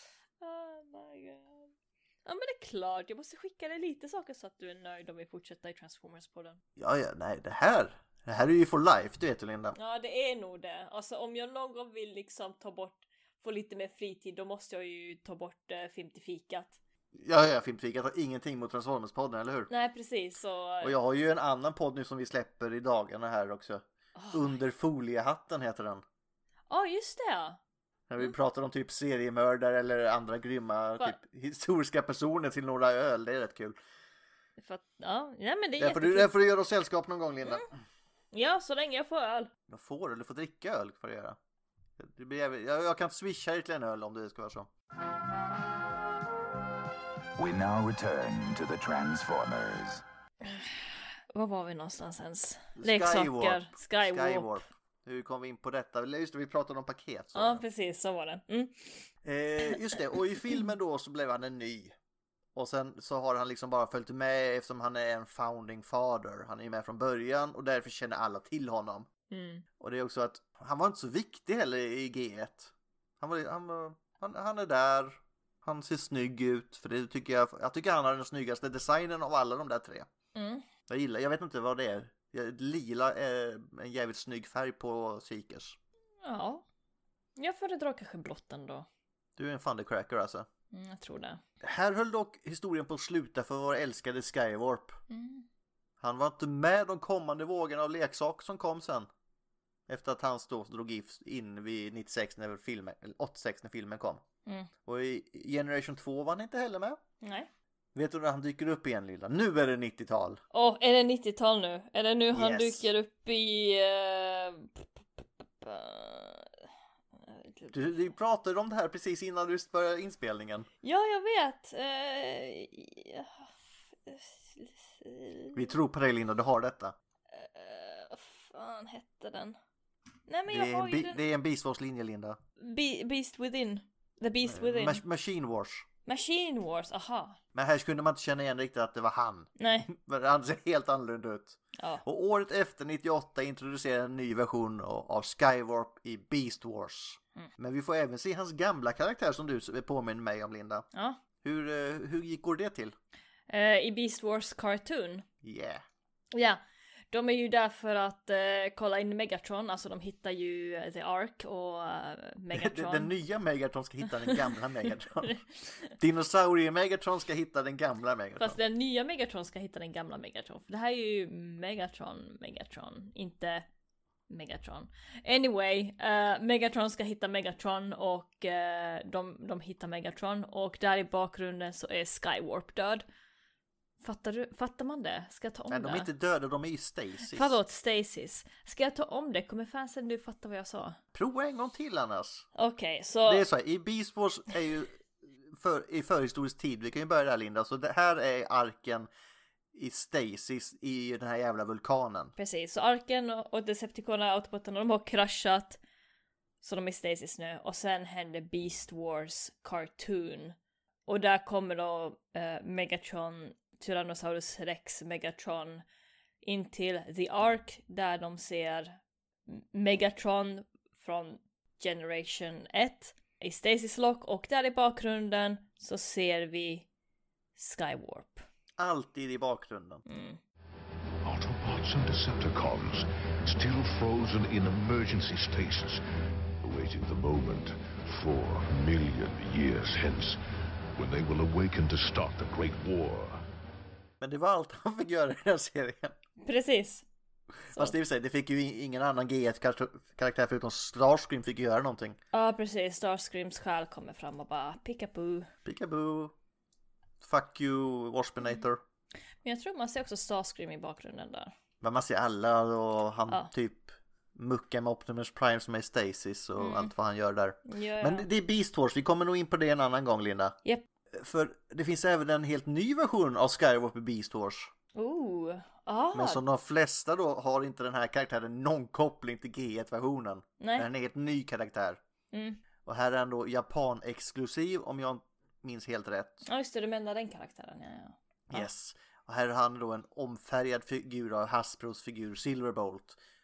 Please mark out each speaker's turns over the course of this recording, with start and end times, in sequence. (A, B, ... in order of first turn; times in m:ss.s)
0:00.4-0:01.7 A
0:02.2-0:06.6 A
0:06.8-0:09.8 B
0:09.8-0:16.8 A
0:17.2-0:19.7 B
0:19.7-0:21.0 A
0:20.8-0:26.0 B
0:24.2-0:24.6 A
0:26.7-0:27.6 A
0:28.1-0:33.8 B
0:34.6-0:36.3 A
0:35.8-0:37.7 B
0:38.3-0:39.5 A
0:39.7-0:41.4 B
0:42.0-0:44.7 B
0:47.4-0:50.0 C
0:50.4-0:54.6 A
0:52.8-0:57.6 B
0:57.4-0:59.0 A
0:59.2-1:02.0 B
1:02.6-1:09.1 B
1:09.3-1:09.6 A
1:09.8-1:20.1 B
1:20.4-1:20.6 A
1:20.9-1:25.8 B
1:26.2-1:26.6 A
1:27.4-1:28.9 A
1:29.4-1:30.5 B
1:30.7-1:31.4 A
1:31.6-1:35.0 B
1:35.1-1:35.4 A
1:36.0-1:39.1 B
1:39.9-1:44.2 B
1:44.8-1:47.0 B
1:47.2-1:47.5 A
1:48.0-1:50.4 B
1:50.5-1:56.5 A
1:52.3-1:52.9 B
1:57.2-1:58.0 A
1:57.7-2:00.7 B
2:00.8-2:03.5 A
2:04.0-2:05.7 A
2:05.5-2:07.0 B
2:07.3-2:09.6 A
2:10.3-2:11.2 A
2:10.5-2:12.4 B
2:12.6-2:15.0 A
2:14.4-2:15.9 B
2:16.1-2:17.4 A
2:17.5-2:30.9 B
2:19.6-2:19.9 A
2:21.8-2:22.0 A
2:30.9-2:31.2 A
2:31.4-2:33.0 B
2:33.5-2:35.2 A
2:35.4-2:35.8 B
2:36.3-2:36.6 A
2:37.1-2:43.1 A
2:42.5-2:48.6 B
2:44.2-2:44.5 A
2:48.4-2:53.7 A
2:54.3-3:03.0 A
3:04.0-3:06.1 A
3:05.7-3:07.6 B
3:07.3-3:11.0 A
3:11.1-3:12.5 B
3:12.6-3:13.5 A
3:13.2-3:19.1 B
3:19.7-3:22.3 B
3:22.4-3:25.8 A
3:26.6-3:30.6 A
3:31.1-3:35.8 A
3:36.4-3:39.0 A
3:39.5-3:46.9 A
3:47.6-3:48.5 A
3:48.8-3:50.0 B
3:50.1-3:50.4 A
3:51.2-3:56.0 D
3:56.6-4:00.4 D
4:01.0-4:03.4 D
4:04.2-4:06.2 B
4:06.4-4:07.0 A
4:07.7-4:12.2 B
4:12.3-4:15.5 A
4:15.6-4:16.3 B
4:17.2-4:18.8 B
4:19.4-4:21.5 A
4:21.8-4:30.6 B
4:26.6-4:26.9 A
4:27.7-4:28.3 A
4:31.1-4:34.7 B
4:35.0-4:36.4 A
4:36.1-4:42.0 B
4:40.6-4:40.9 A
4:42.3-4:42.6 A
4:42.8-4:46.4 B
4:46.4-4:48.7 A
4:48.5-4:53.2 B